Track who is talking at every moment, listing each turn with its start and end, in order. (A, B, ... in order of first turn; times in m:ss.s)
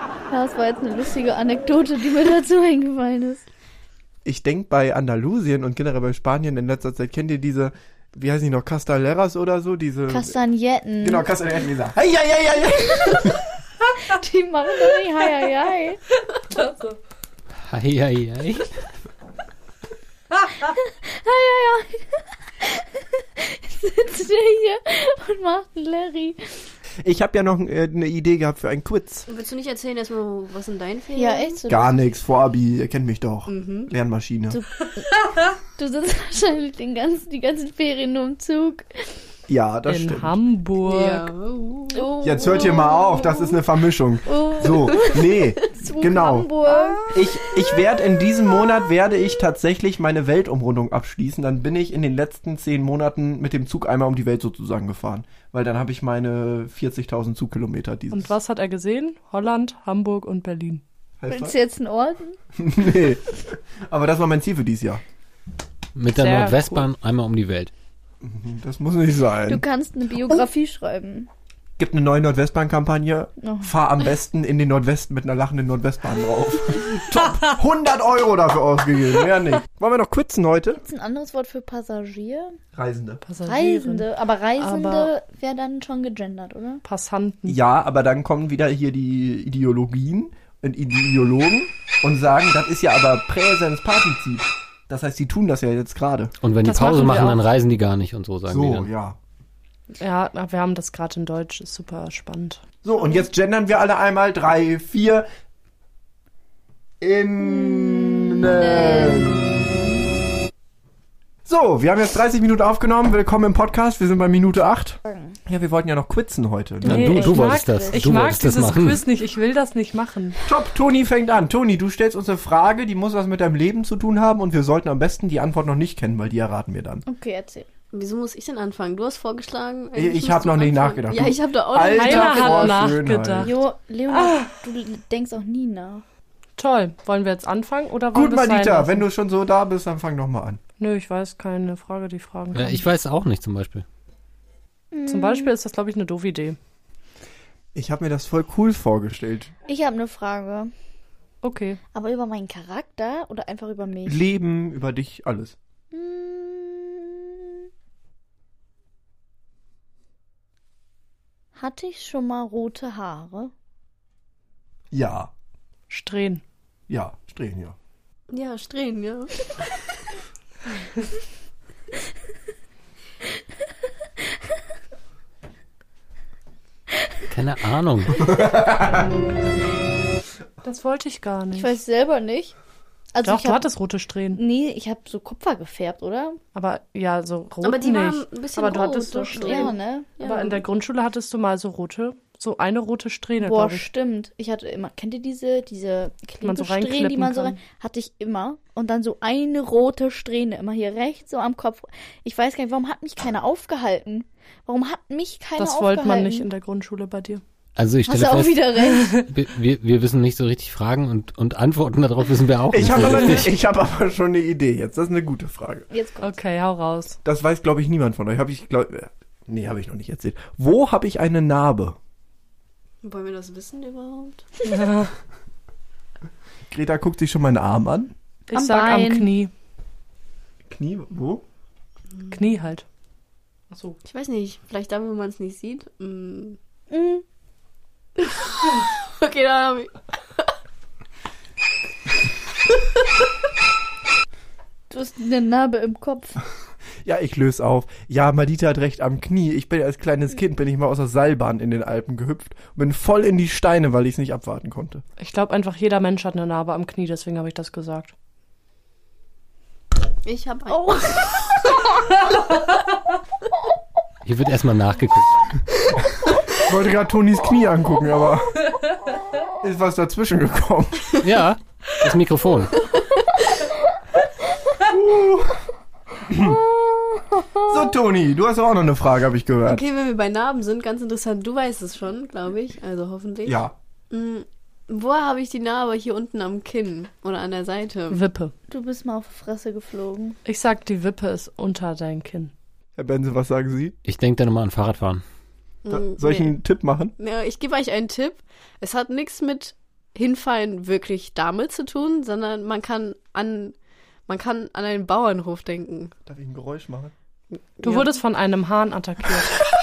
0:00.3-0:03.4 A
0:04.2-0:10.4 B
0:10.1-0:11.3 A
0:11.0-0:13.4 B
0:14.0-0:16.0 A
0:16.3-0:17.0 C
0:17.6-0:18.7 D
0:20.6-0:26.5 A
0:27.0-0:29.3 B
0:29.3-0:31.6 E
0:31.1-0:31.9 A
0:31.7-0:34.6 B
0:33.5-0:33.9 E
0:34.5-0:38.9 A
0:39.5-0:40.4 B
0:39.9-0:41.3 C
0:40.8-0:42.1 E
0:41.9-0:43.6 A
0:42.2-0:46.5 B
0:44.2-0:47.1 A
0:46.7-0:47.6 E
0:47.1-0:58.3 B
0:58.1-1:00.8 C
1:01.2-1:01.5 B
1:01.3-1:02.4 A
1:02.5-1:05.0 B
1:06.0-1:07.7 D
1:06.2-1:06.7 C
1:08.2-1:09.6 B
1:09.5-1:11.3 A
1:11.8-1:20.8 B
1:13.4-1:13.7 A
1:20.8-1:22.6 A
1:22.7-1:23.2 B
1:23.2-1:24.1 C
1:23.4-1:26.8 A
1:24.6-1:25.1 C
1:26.8-1:27.6 C
1:27.5-1:36.3 B
1:36.4-1:38.9 D
1:36.6-1:37.4 C
1:38.5-1:39.2 B
1:40.0-1:42.6 C
1:42.8-1:45.3 B
1:47.0-1:49.7 B
1:47.4-1:49.7 A
1:51.4-1:57.1 B
1:55.0-1:55.4 A
1:56.8-1:58.1 A
1:56.8-1:59.0 D
1:56.8-2:00.4 C
2:00.4-2:07.0 B
2:07.0-2:07.7 A
2:07.9-2:12.9 E
2:09.9-2:13.5 B
2:11.9-2:13.5 C
2:13.4-2:16.0 A
2:14.1-2:14.5 C
2:16.6-2:19.0 C
2:18.1-2:20.6 B
2:20.8-2:22.8 C
2:22.5-2:23.8 D
2:24.9-2:25.5 A
2:25.1-2:26.6 C
2:27.7-2:29.5 B
2:29.6-2:30.7 A
2:31.4-2:31.8 C
2:31.9-2:34.2 A
2:34.0-2:35.6 B
2:35.9-2:37.3 A
2:41.6-2:43.5 A
2:44.9-2:45.3 B
2:45.9-2:46.4 C
2:46.9-2:47.8 B
2:48.3-2:49.7 E
2:57.3-2:58.3 D
2:58.2-2:59.0 B
3:00.6-3:01.7 C
3:01.5-3:02.5 A
3:03.1-3:03.6 A
3:03.2-3:04.4 C
3:04.3-3:06.4 A
3:06.5-3:13.9 C
3:07.6-3:10.6 E
3:09.3-3:10.1 A
3:13.4-3:26.5 A
3:16.4-3:17.6 C
3:25.6-3:27.4 C
3:27.8-3:33.5 D
3:28.0-3:29.1 A
3:28.8-3:29.2 C
3:32.7-3:35.9 B
3:35.9-3:36.3 A
3:36.2-3:37.2 C
3:37.2-3:42.0 B
3:43.0-3:44.6 E
3:44.6-3:45.1 C
3:46.7-3:48.1 B
3:48.5-3:49.5 C
3:48.5-3:49.3 A
3:50.7-3:51.4 B
3:52.3-3:52.8 C
3:53.7-3:54.0 C
3:54.0-3:56.6 E
3:56.9-3:57.2 A
3:58.2-4:00.0 E
4:04.9-4:06.4 A
4:07.0-4:15.0 B
4:15.2-4:18.1 C
4:20.2-4:21.7 E
4:20.7-4:21.3 A
4:24.2-4:25.5 D
4:26.5-4:28.6 B
4:29.6-4:31.2 B
4:31.2-4:32.8 D
4:34.8-4:35.6 B
4:36.2-4:36.6 B
4:36.4-4:37.7 A
4:37.6-4:39.8 B
4:39.6-4:48.2 E
4:43.4-4:43.7 B
4:48.1-4:48.5 C
4:48.7-4:50.4 A
4:50.4-4:52.5 C
4:53.0-4:53.9 B
4:54.0-4:55.2 D
4:55.8-4:56.5 E
4:55.9-4:57.1 B
4:57.2-5:03.7 E
5:04.3-5:06.1 E
5:06.2-5:07.1 B
5:07.5-5:08.1 E
5:07.8-5:09.6 C